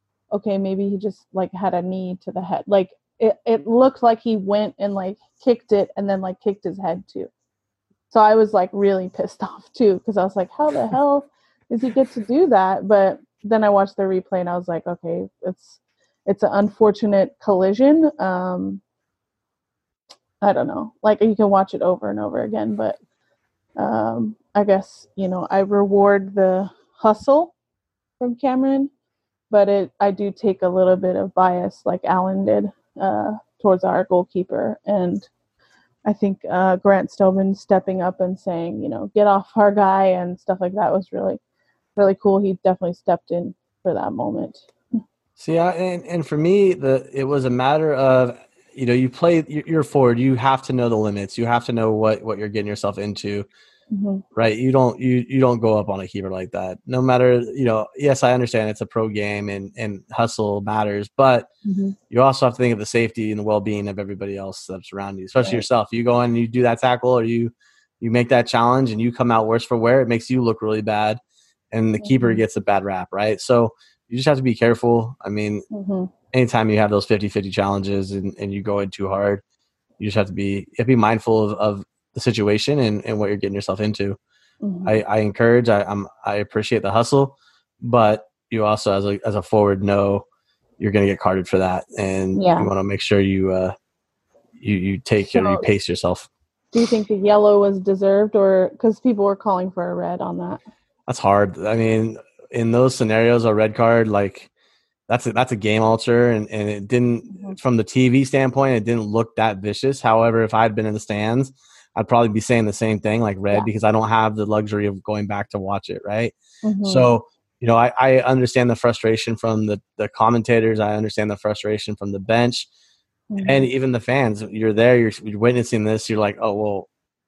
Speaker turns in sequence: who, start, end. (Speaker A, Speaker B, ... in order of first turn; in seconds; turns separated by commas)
Speaker A: 0.3-7.3, Speaker A: 8.1-18.8, Speaker A: 20.4-23.0, Speaker A: 23.8-27.5, Speaker A: 28.2-28.9, Speaker A: 29.5-35.3, Speaker A: 36.0-41.4, Speaker A: 42.0-44.6, Speaker B: 45.4-53.5, Speaker A: 53.9-54.2, Speaker B: 54.4-61.5, Speaker A: 61.6-62.0, Speaker B: 62.1-71.2, Speaker B: 71.7-75.6, Speaker A: 72.0-72.4, Speaker A: 75.7-76.1, Speaker B: 76.3-79.4, Speaker B: 80.0-84.2, Speaker A: 84.6-85.0, Speaker B: 84.8-90.2, Speaker B: 90.8-93.8, Speaker A: 92.3-92.7, Speaker B: 94.6-96.3, Speaker A: 95.3-95.7, Speaker A: 96.7-100.6, Speaker B: 101.1-104.5, Speaker B: 105.1-122.7, Speaker A: 107.3-107.6, Speaker A: 116.6-117.1, Speaker A: 123.3-123.7, Speaker B: 123.4-126.9